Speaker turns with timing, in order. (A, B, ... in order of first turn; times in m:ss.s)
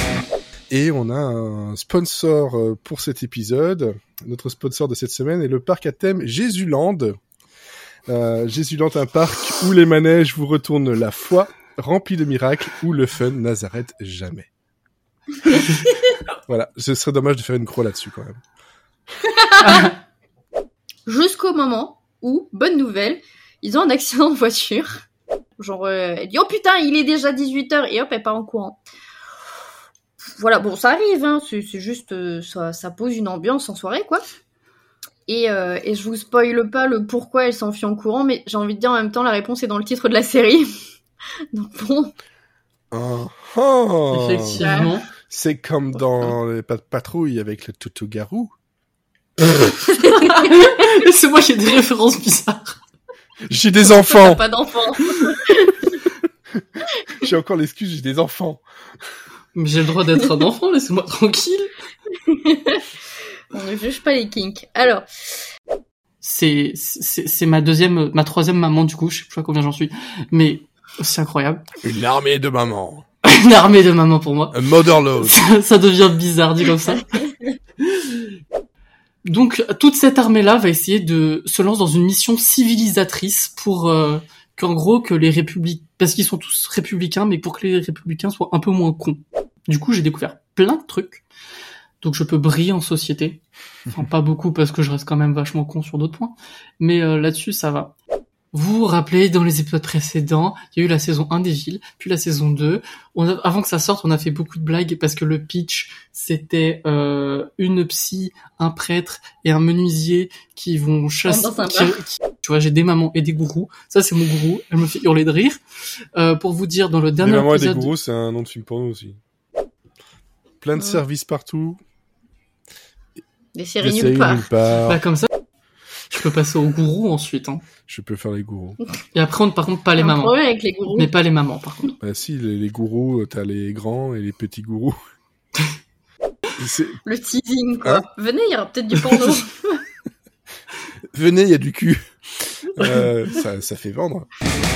0:00.7-0:07.1 A
0:08.1-0:14.5 A
0:16.5-0:18.4 A
0:19.5-0:19.9 B
0:19.6-0:19.9 C
0:21.0-0:25.0 B
0:25.6-0:28.8 B
0:30.4-0:34.2 B
0:35.3-0:40.6 B
0:41.5-0:42.1 B
0:42.9-0:44.6 A
0:44.1-0:45.1 C
0:44.6-0:44.9 B
0:45.3-0:48.5 A
0:49.9-0:52.8 C
0:53.5-0:54.4 A
0:53.8-0:55.8 B
0:57.2-0:58.6 A
0:59.5-1:01.7 C
1:02.3-1:02.8 B
1:03.5-1:05.0 B
1:06.2-1:11.6 C
1:11.8-1:13.0 A
1:13.2-1:17.3 C
1:14.5-1:15.4 A
1:19.2-1:31.2 C
1:32.0-1:37.9 C
1:38.5-1:55.6 C
1:51.2-1:52.0 B
1:56.1-1:57.9 C
1:57.2-1:59.2 A
2:00.6-2:01.8 A
2:00.8-2:01.0 B
2:03.5-2:04.5 B
2:03.8-2:05.0 A
2:04.8-2:05.3 C
2:06.1-2:07.6 C
2:07.9-2:08.8 A
2:09.1-2:10.4 C
2:10.0-2:11.1 B
2:10.9-2:11.9 C
2:12.0-2:14.9 A
2:16.6-2:17.0 A
2:17.0-2:19.8 B
2:19.0-2:19.3 C
2:21.1-2:22.0 A
2:22.7-2:24.3 A